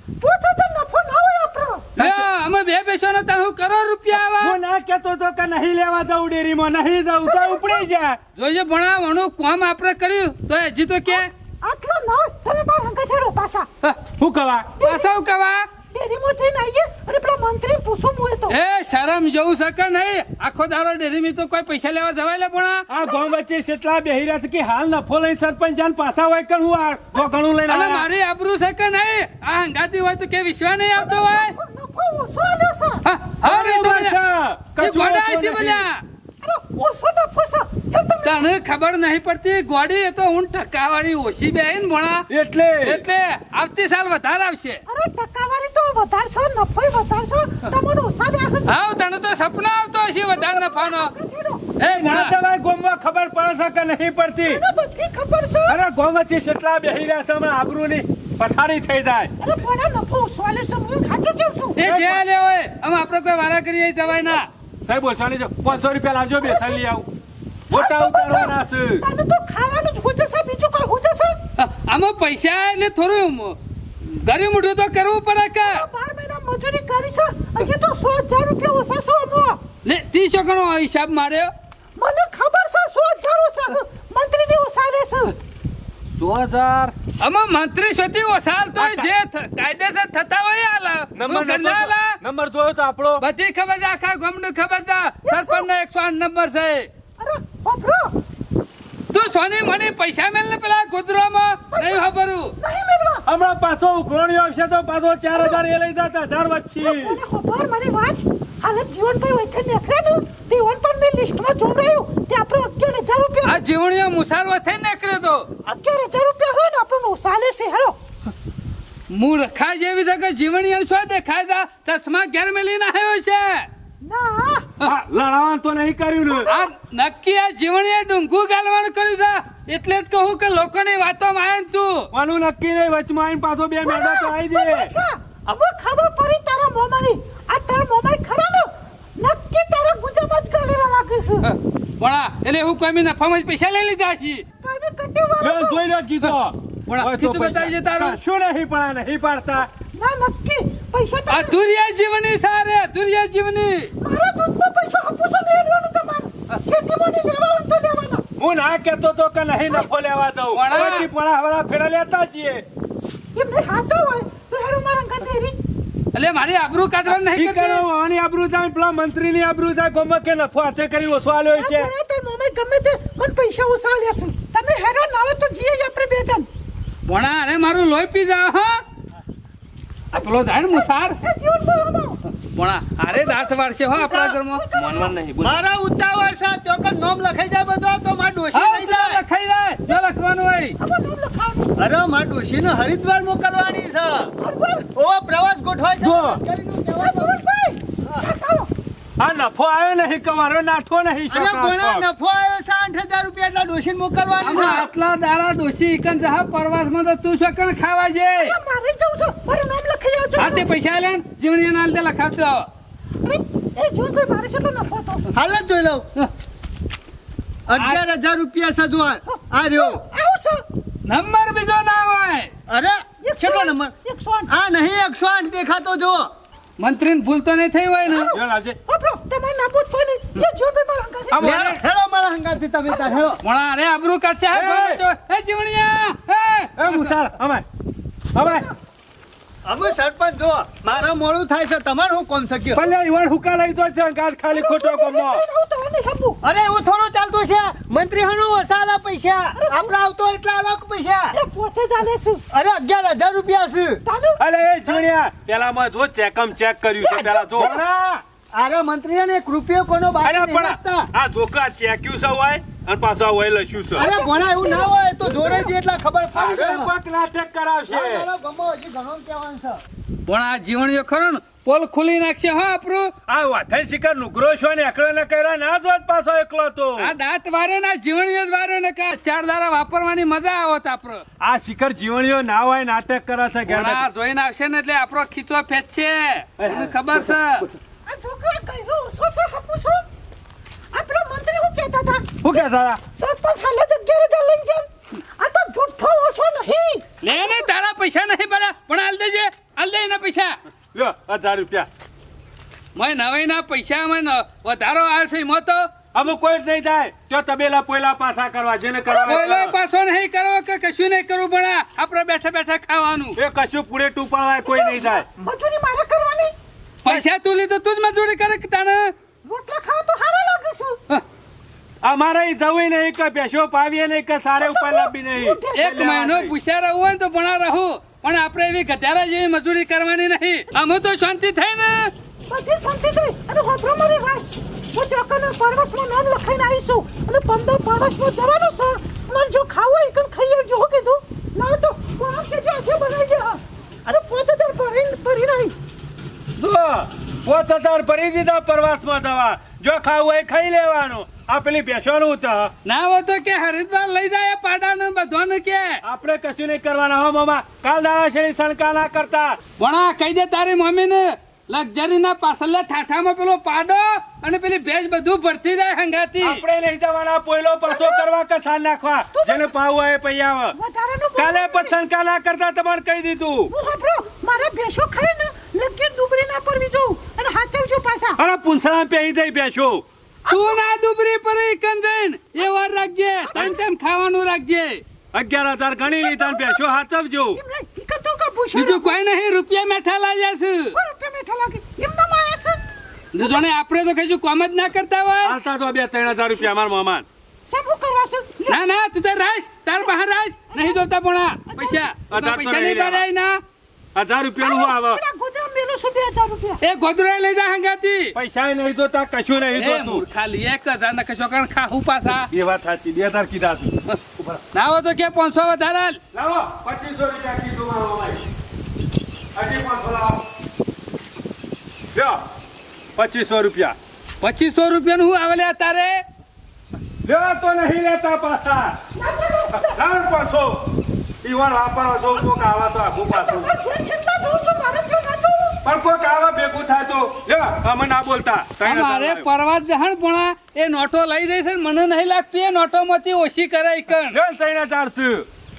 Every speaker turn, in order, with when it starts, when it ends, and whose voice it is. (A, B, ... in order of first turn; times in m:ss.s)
0:00.2-0:01.9 A
0:02.0-0:02.2 B
0:02.0-0:04.6 C
0:04.1-0:08.2 B
0:07.2-0:07.9 A
0:08.4-0:11.3 C
0:11.1-0:13.7 A
0:14.2-0:14.7 B
0:14.8-0:15.7 C
0:14.8-0:15.1 A
0:15.9-0:18.6 A
0:18.5-0:22.9 C
0:22.9-0:28.1 B
0:27.7-0:31.5 C
0:31.0-0:33.0 A
0:33.0-0:34.2 C
0:33.4-0:35.8 B
0:34.8-0:36.0 C
0:36.4-0:38.5 A
0:38.2-0:42.3 C
0:42.3-0:43.0 B
0:42.8-0:44.8 C
0:44.9-0:48.7 A
0:48.7-0:51.1 C
0:50.4-0:51.7 A
0:51.8-0:52.4 C
0:52.0-0:54.6 B
0:54.5-0:55.8 A
0:55.7-0:59.3 B
0:59.4-1:01.8 A
1:01.8-1:04.5 C
1:01.8-1:02.2 B
1:04.9-1:07.1 B
1:07.7-1:09.1 B
1:07.8-1:11.4 A
1:11.6-1:15.8 C
1:15.6-1:19.6 A
1:19.8-1:21.5 C
1:22.0-1:25.4 A
1:26.2-1:26.9 B
1:27.2-1:32.2 C
1:28.8-1:29.1 B
1:31.2-1:33.2 B
1:33.2-1:36.9 C
1:35.2-1:35.7 A
1:37.2-1:38.2 A
1:39.1-1:42.6 C
1:41.7-1:42.1 A
1:42.6-1:43.2 A
1:43.3-1:47.2 B
1:46.8-1:53.6 A
1:53.4-1:55.5 C
1:55.7-1:58.0 A
1:59.1-2:03.7 C
2:04.0-2:04.7 A
2:04.8-2:06.5 B
2:06.5-2:12.1 C
2:12.1-2:14.9 B
2:13.8-2:21.4 A
2:21.4-2:24.4 C
2:24.6-2:25.8 A
2:25.4-2:29.7 B
2:26.9-2:28.2 C
2:30.0-2:31.6 A
2:31.3-2:33.9 C
2:34.0-2:38.2 A
2:38.4-2:42.6 B
2:40.5-2:41.1 C
2:43.4-2:45.6 A
2:46.1-2:47.8 C
2:47.1-2:51.9 B
2:51.6-2:56.5 A
2:57.1-2:58.8 C
3:00.1-3:01.2 C
3:00.2-3:02.2 A
3:02.4-3:04.6 C
3:03.1-3:03.6 A
3:04.4-3:05.1 A
3:04.7-3:05.6 B
3:05.4-3:09.2 D
3:08.5-3:10.8 C
3:10.8-3:11.8 A
3:11.8-3:14.3 D
3:14.4-3:14.9 A
3:15.0-3:17.4 D
3:16.0-3:16.4 B
3:17.0-3:18.7 A
3:19.2-3:22.1 B
3:21.3-3:24.9 D
3:24.4-3:28.6 C
3:28.4-3:30.7 A
3:30.4-3:32.7 C
3:33.2-3:35.3 A
3:35.3-3:36.1 D
3:37.7-3:40.0 D
3:37.8-3:38.0 C
3:39.3-3:40.6 A
3:41.1-3:42.5 C
3:42.7-3:43.9 D
3:43.2-3:44.5 A
3:44.5-3:46.3 D
3:46.8-3:48.3 C
3:48.3-3:48.8 B
3:48.9-3:51.4 A
3:51.3-3:51.8 B
3:51.4-3:53.4 D
3:53.4-3:57.1 C
3:54.5-3:55.0 B
3:56.8-3:57.6 B
3:58.4-3:58.7 B
3:59.6-4:02.8 D
4:02.8-4:05.4 B
4:04.6-4:06.4 A
4:06.4-4:11.4 D
4:09.6-4:09.9 A
4:11.3-4:12.4 A
4:12.5-4:14.0 D
4:14.1-4:14.4 A
4:14.4-4:17.8 B
4:17.5-4:21.1 D
4:20.2-4:24.1 B
4:24.0-4:26.9 D
4:24.1-4:25.6 A
4:26.3-4:28.3 B
4:27.9-4:29.8 D
4:30.3-4:33.1 C
4:33.3-4:37.1 B
4:37.0-4:41.2 C
4:41.4-4:44.0 B
4:43.7-4:47.7 C
4:46.6-4:47.8 B
4:48.1-4:50.1 A
4:50.9-4:52.3 A
4:52.4-4:53.0 B
4:53.2-4:57.7 A
4:57.2-5:00.6 C
5:00.9-5:01.9 B
5:03.0-5:05.9 C
5:06.1-5:09.8 B
5:09.2-5:13.4 C
5:13.4-5:15.3 B
5:14.7-5:16.6 A
5:17.0-5:19.1 C
5:19.4-5:21.0 A
5:22.0-5:26.5 B
5:24.6-5:25.8 A
5:25.8-5:32.1 C
5:32.5-5:45.8 A
5:46.6-5:52.7 B
5:52.8-5:56.0 C
5:56.0-5:59.6 B
5:59.8-6:06.6 C
6:06.4-6:10.8 B
6:07.9-6:08.2 A
6:09.3-6:09.7 A
6:10.8-6:11.9 A
6:11.4-6:13.7 B
6:13.7-6:18.4 A
6:18.4-6:20.0 B
6:20.5-6:20.8 A
6:20.5-6:25.0 C
6:23.4-6:23.8 A
6:25.3-6:27.6 B
6:26.2-6:26.7 A
6:27.6-6:29.2 A
6:28.7-6:31.0 C
6:31.0-6:32.8 A
6:33.3-6:35.6 C
6:35.4-6:37.3 B
6:37.7-6:38.8 A
6:38.7-6:43.6 C
6:40.7-6:41.0 A
6:41.7-6:42.1 A
6:42.3-6:43.2 B
6:44.2-6:45.2 B
6:44.6-6:46.8 A
6:46.8-6:48.3 C
6:48.4-6:50.2 B
6:49.7-6:52.5 C
6:52.5-6:54.6 B
6:54.7-6:56.2 C
6:56.3-6:58.4 B
6:59.6-7:00.4 B
7:02.1-7:02.4 B
7:03.2-7:04.0 B
7:04.4-7:06.2 C
7:07.2-7:09.0 B
7:09.2-7:09.9 A
7:09.7-7:10.8 B
7:11.4-7:13.7 B
7:13.3-7:15.8 A
7:15.8-7:19.5 B
7:18.8-7:24.4 C
7:24.3-7:25.5 B